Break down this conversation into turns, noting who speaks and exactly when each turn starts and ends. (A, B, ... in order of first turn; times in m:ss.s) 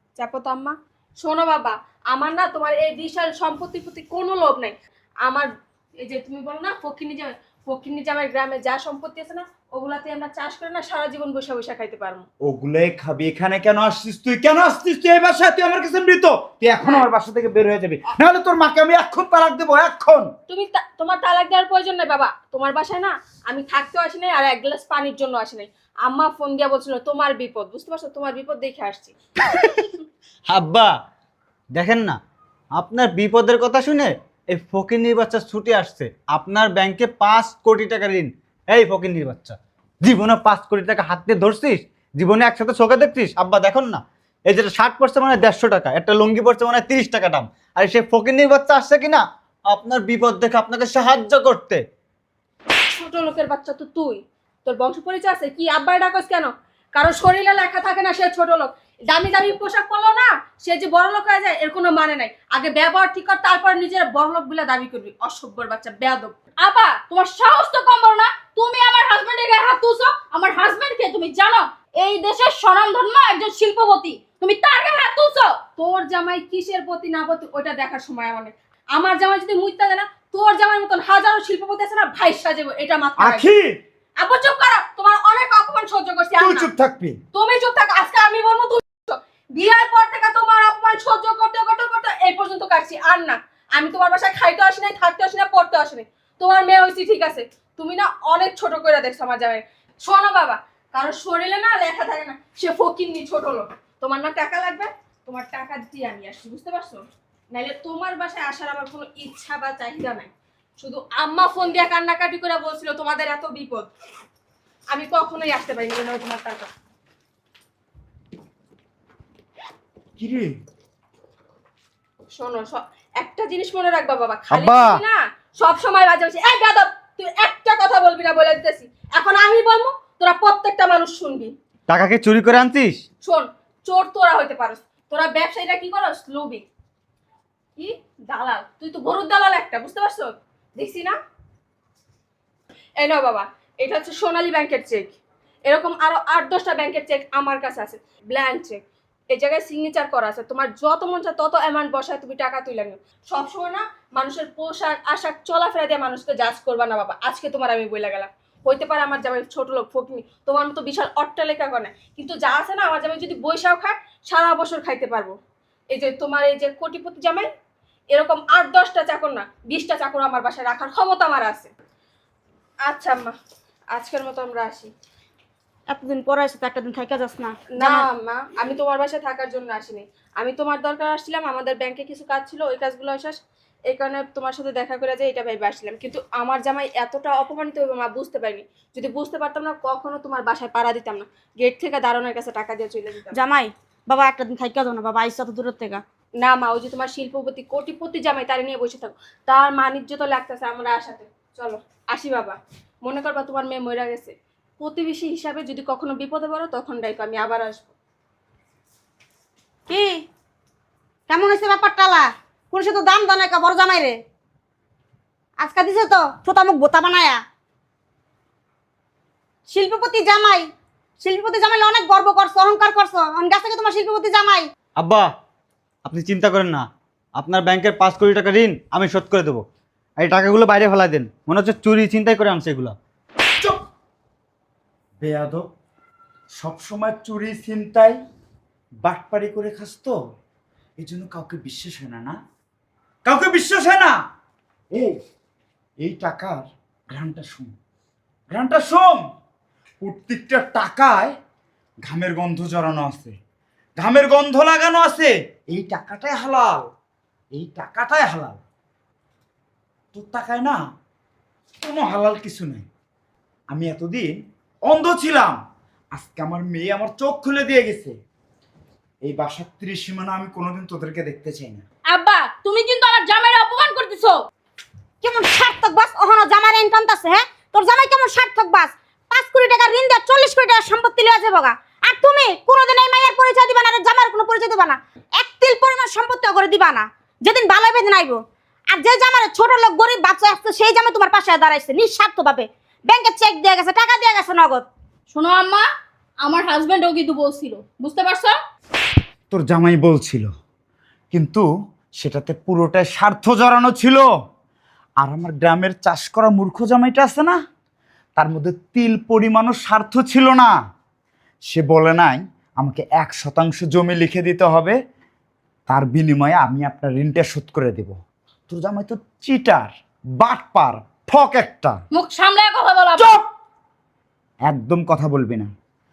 0:00.2-0:12.2 A
0:12.4-0:20.3 B
0:16.8-0:17.1 A
0:20.5-0:29.2 A
0:29.4-0:29.8 C
0:30.5-0:30.9 C
0:31.8-0:32.2 C
0:32.8-0:51.8 C
0:52.9-1:06.4 A
1:06.6-1:15.6 D
1:15.7-1:23.5 A
1:23.2-1:23.7 B
1:24.2-1:26.7 A
1:26.4-1:27.2 B
1:27.3-1:53.9 A
1:54.9-1:56.7 A
2:00.2-2:00.5 B
2:02.3-2:11.5 A
2:04.5-2:05.0 C
2:11.9-2:13.0 C
2:13.2-2:16.6 A
2:17.8-2:21.2 A
2:23.0-2:25.2 A
2:25.7-2:28.8 A
2:29.3-2:45.4 A
2:45.9-2:47.5 A
2:48.1-2:51.7 A
2:52.9-2:53.4 A
2:53.9-2:54.9 A
2:55.9-2:58.1 E
2:57.8-3:13.4 A
3:13.3-3:16.0 E
3:16.4-3:27.9 A
3:29.9-3:30.2 E
3:31.3-3:34.2 E
3:35.6-3:37.4 E
3:39.7-3:40.7 E
3:41.2-3:44.7 E
3:45.0-3:45.3 C
3:46.0-3:49.6 C
3:50.2-3:53.0 C
3:55.2-3:55.6 B
3:56.6-3:58.2 B
3:59.0-4:00.2 B
4:01.0-4:02.4 B
4:03.2-4:04.2 B
4:06.0-4:07.8 B
4:08.5-4:09.2 B
4:10.0-4:11.4 B
4:12.0-4:13.4 B
4:14.0-4:16.9 B
4:17.5-4:18.6 B
4:20.1-4:20.8 B
4:21.8-4:22.9 B
4:23.7-4:24.4 B
4:24.9-4:25.6 B
4:26.1-4:28.2 B
4:29.2-4:31.8 B
4:32.1-4:34.4 D
4:35.2-4:48.4 E
4:48.9-4:54.9 E
4:55.3-4:55.9 D
4:56.4-4:58.6 D
4:59.5-5:00.5 B
5:01.3-5:01.7 B
5:02.2-5:04.3 B
5:05.2-5:07.6 B
5:08.4-5:10.8 B
5:11.7-5:15.0 B
5:15.9-5:18.2 B
5:18.7-5:22.0 B
5:22.1-5:23.4 D
5:24.7-5:25.7 B